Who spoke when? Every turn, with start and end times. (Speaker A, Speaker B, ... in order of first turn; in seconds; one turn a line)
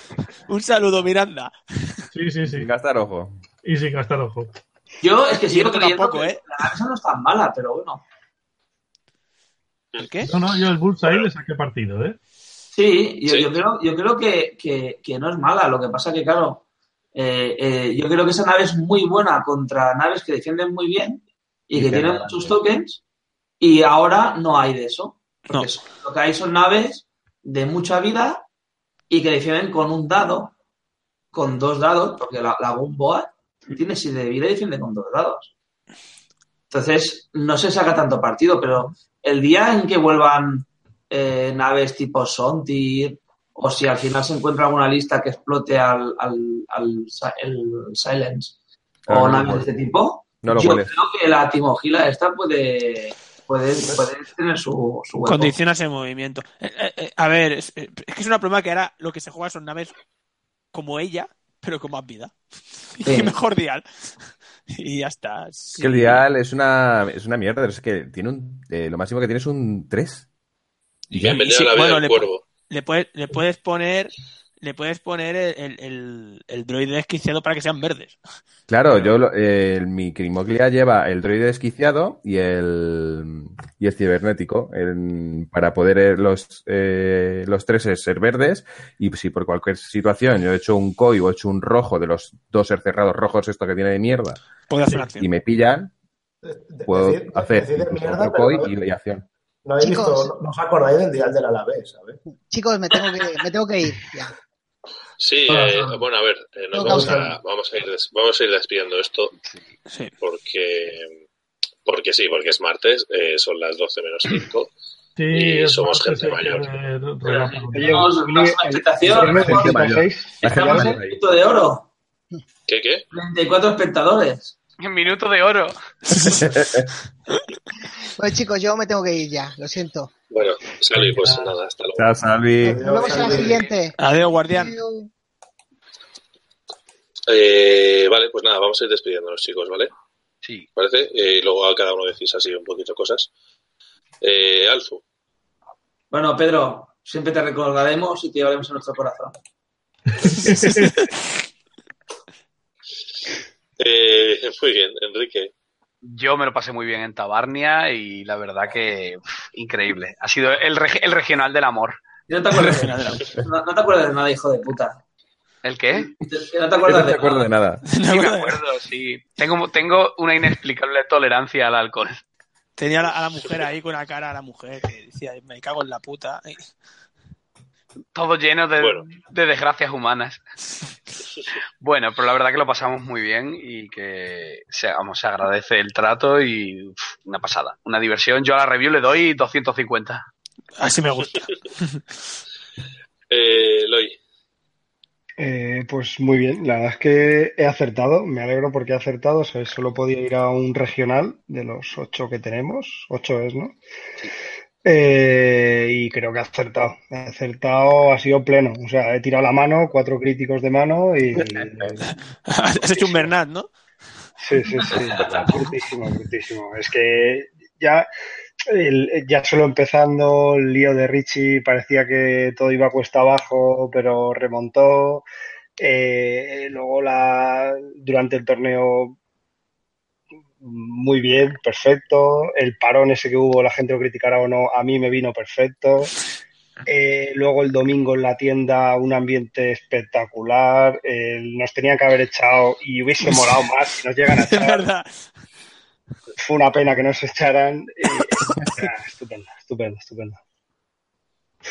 Speaker A: 0.5-1.5
Speaker B: 2.1-2.7
Speaker C: 2.5-3.3
Speaker B: 3.6-4.5
Speaker D: 5.0-8.0
Speaker A: 5.5-6.4
Speaker A: 10.0-10.3
Speaker B: 10.2-12.2
Speaker D: 12.7-16.6
Speaker E: 13.3-13.6
Speaker D: 17.1-23.0
Speaker C: 21.8-22.5
Speaker D: 23.6-28.5
Speaker D: 29.1-30.5
Speaker D: 31.3-35.5
Speaker D: 36.7-48.5
Speaker C: 49.1-49.7
Speaker D: 49.1-55.6
Speaker C: 50.4-50.9
Speaker A: 55.2-60.0
Speaker A: 60.7-63.9
Speaker D: 63.0-63.4
Speaker A: 64.7-66.2
Speaker C: 65.8-70.3
Speaker C: 71.1-71.4
Speaker E: 71.2-72.4
Speaker A: 71.2-78.2
Speaker C: 78.7-94.4
Speaker A: 94.7-95.3
Speaker C: 95.2-95.9
Speaker F: 96.4-98.7
Speaker C: 96.9-99.3
Speaker F: 99.6-102.2
Speaker G: 99.8-100.3
Speaker G: 102.5-104.3
Speaker E: 105.2-109.3
Speaker D: 105.5-106.0
Speaker G: 106.8-107.3
Speaker F: 106.8-107.3
Speaker E: 110.2-111.2
Speaker E: 111.8-114.7
Speaker B: 115.2-118.1
Speaker E: 115.3-116.7
Speaker D: 117.2-119.9
Speaker H: 117.7-121.0
Speaker C: 119.1-121.3
Speaker D: 120.4-121.9
Speaker E: 122.7-123.0
Speaker D: 123.1-124.5
Speaker I: 124.8-125.8
Speaker A: 126.1-126.4
Speaker C: 126.1-126.9
Speaker G: 128.2-130.1
Speaker E: 130.3-132.1
Speaker B: 131.0-131.5
Speaker C: 132.0-132.8
Speaker G: 132.6-133.9
Speaker F: 132.6-133.6
Speaker I: 133.4-133.8
Speaker A: 134.0-134.8
Speaker G: 134.5-135.1
Speaker E: 137.3-139.9
Speaker E: 140.8-143.3
Speaker E: 144.2-145.0
Speaker D: 146.1-149.4
Speaker B: 150.2-151.0
Speaker E: 153.8-155.5
Speaker I: 156.0-162.0
Speaker D: 162.3-165.0
Speaker A: 162.6-163.3
Speaker I: 165.6-166.1
Speaker D: 166.1-167.5
Speaker C: 166.8-167.9
Speaker A: 167.9-168.6
Speaker I: 168.0-172.2
Speaker A: 172.8-176.6
Speaker I: 178.1-180.4
Speaker E: 178.8-179.1
Speaker I: 181.8-190.2
Speaker A: 190.8-192.0
Speaker E: 193.3-194.2
Speaker H: 195.4-203.8
Speaker H: 204.8-212.1
Speaker A: 212.1-213.7
Speaker H: 213.0-213.2
Speaker H: 214.4-218.1
Speaker C: 215.1-215.5
Speaker H: 218.7-225.3
Speaker H: 225.8-229.2
Speaker H: 230.6-236.1
Speaker H: 236.9-244.9
Speaker A: 244.4-245.1
Speaker H: 246.4-250.4